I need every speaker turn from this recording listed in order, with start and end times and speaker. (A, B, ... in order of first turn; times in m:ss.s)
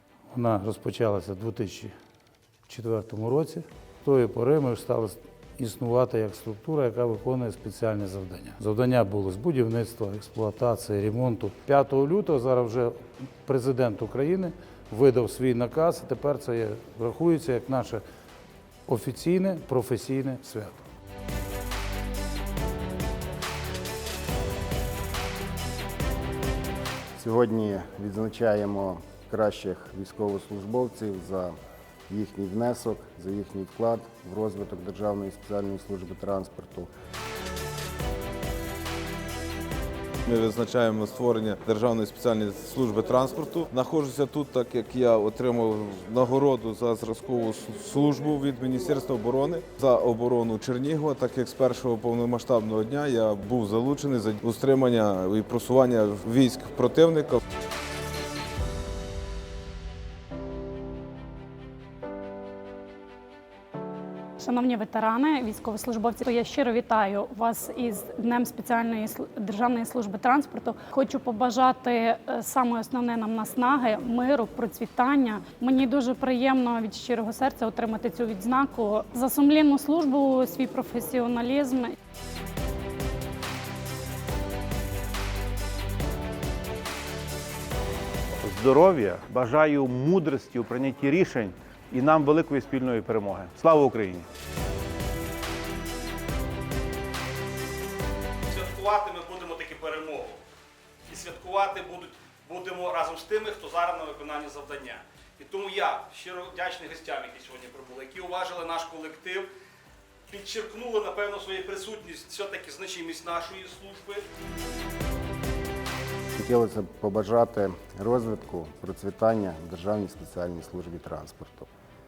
0:00.3-0:01.9 A
0:02.7-0:18.0 A
0:18.9-0:20.8 A
0:27.2-0:31.5 B
0:32.1-0:36.9 B
0:40.2-0:57.4 C
1:04.4-1:21.9 D
1:28.4-1:34.3 E
1:38.5-1:40.4 F
1:41.1-1:49.5 F
1:50.3-1:54.2 F
1:56.3-2:01.7 B